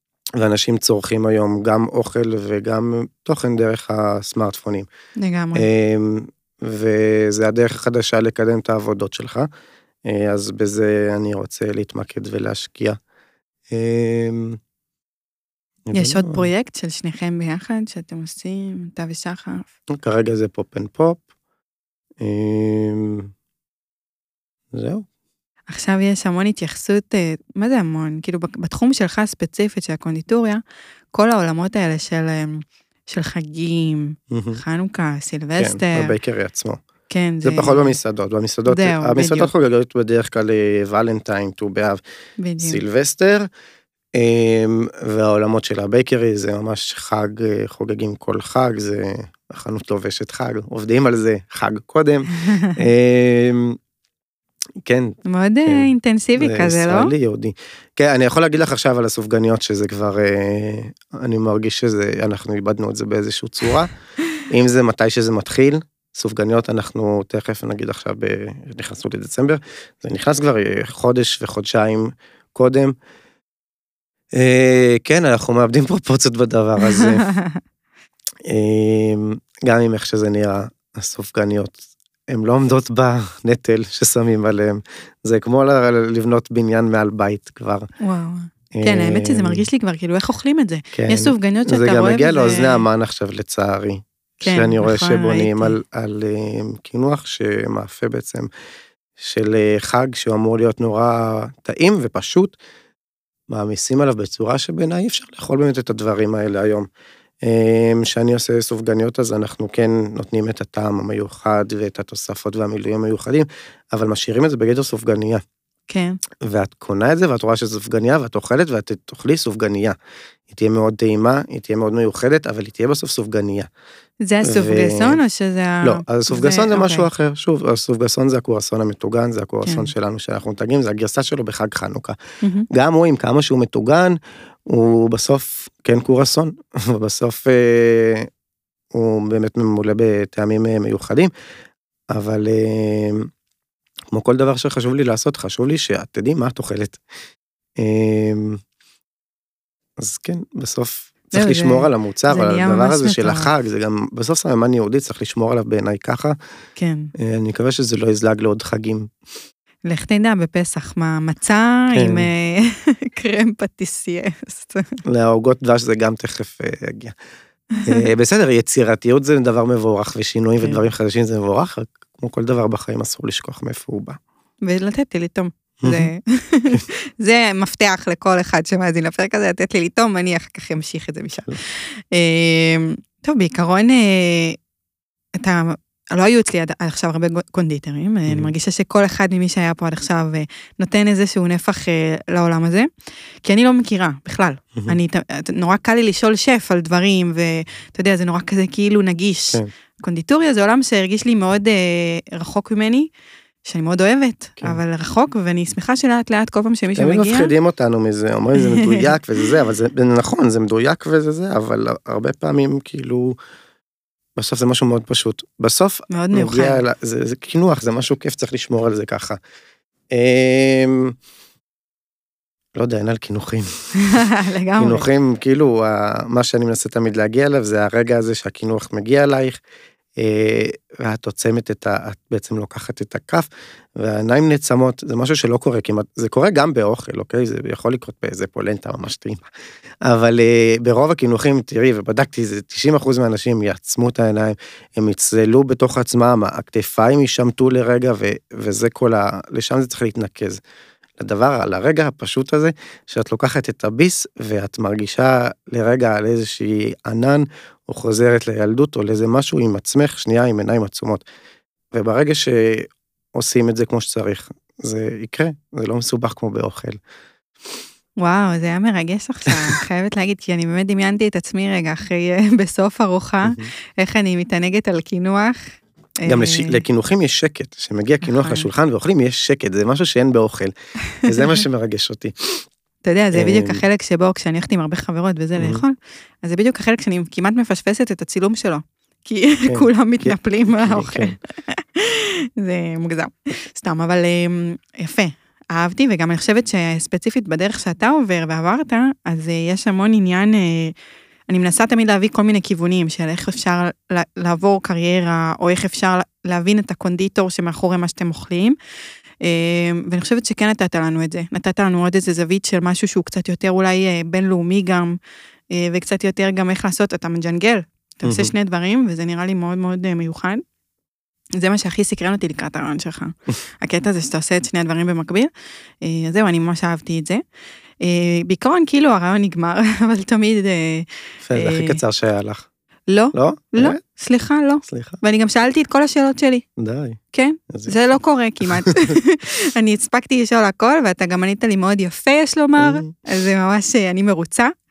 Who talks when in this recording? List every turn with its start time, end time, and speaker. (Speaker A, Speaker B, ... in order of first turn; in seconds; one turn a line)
Speaker A: 0.4-4.9
Speaker B: 5.2-5.7
Speaker A: 5.5-9.5
Speaker A: 10.1-13.0
Speaker A: 13.7-14.6
Speaker A: 15.8-16.5
Speaker B: 15.9-19.7
Speaker A: 19.9-21.2
Speaker A: 22.2-23.3
Speaker A: 24.7-25.1
Speaker B: 25.7-30.6
Speaker B: 31.1-36.1
Speaker A: 34.3-34.6
Speaker A: 35.6-36.8
Speaker B: 37.1-38.0
Speaker A: 37.4-42.0
Speaker B: 38.7-39.5
Speaker B: 42.4-42.8
Speaker A: 42.6-43.5
Speaker A: 44.1-53.8
Speaker B: 52.4-52.8
Speaker A: 54.8-63.9
Speaker B: 55.2-57.1
Speaker A: 64.5-72.9
Speaker A: 74.3-77.3
Speaker B: 76.9-77.6
Speaker A: 78.5-87.9
Speaker B: 88.0-92.8
Speaker A: 88.7-89.6
Speaker A: 90.9-98.5
Speaker B: 94.4-95.8
Speaker A: 99.2-102.5
Speaker A: 103.5-106.9
Speaker A: 107.4-115.4
Speaker B: 115.9-116.2
Speaker A: 116.4-120.0
Speaker A: 120.5-123.7
Speaker B: 124.2-127.1
Speaker A: 124.4-125.2
Speaker A: 125.8-132.2
Speaker B: 129.6-129.9
Speaker B: 132.4-132.7
Speaker A: 132.7-138.3
Speaker A: 138.9-141.3
Speaker A: 142.1-143.3
Speaker A: 144.1-147.0
Speaker A: 147.8-148.6
Speaker A: 150.0-156.4
Speaker B: 151.3-153.5
Speaker B: 156.8-157.1
Speaker A: 157.2-159.1
Speaker B: 159.8-165.0
Speaker A: 161.9-162.3
Speaker A: 165.0-167.2
Speaker B: 167.7-168.1
Speaker A: 167.8-174.2
Speaker B: 174.6-184.6
Speaker A: 175.8-176.1
Speaker B: 185.3-192.9
Speaker B: 193.4-203.1
Speaker B: 203.6-207.5
Speaker A: 207.0-213.3
Speaker B: 208.6-209.1
Speaker A: 214.3-219.4
Speaker B: 216.1-216.8
Speaker A: 220.1-221.1
Speaker A: 222.7-223.9
Speaker B: 224.0-225.1
Speaker A: 224.8-229.6
Speaker A: 230.2-239.4
Speaker A: 240.0-250.6
Speaker A: 251.2-261.2
Speaker A: 261.9-267.0
Speaker B: 268.2-276.8
Speaker A: 273.4-273.7
Speaker A: 276.2-282.6
Speaker B: 278.2-278.7
Speaker B: 281.0-281.6
Speaker B: 283.0-300.9
Speaker A: 283.3-283.8
Speaker A: 285.6-285.8
Speaker A: 289.6-291.3
Speaker B: 301.5-308.8
Speaker B: 309.4-315.2
Speaker B: 315.7-320.6
Speaker A: 318.2-318.5
Speaker B: 321.6-327.4
Speaker B: 328.0-332.0
Speaker A: 331.4-332.7
Speaker B: 333.1-336.6
Speaker A: 333.3-334.0
Speaker A: 334.9-335.2
Speaker A: 336.8-337.2
Speaker B: 337.3-344.7
Speaker A: 337.7-337.9
Speaker A: 338.7-339.1
Speaker A: 342.8-343.1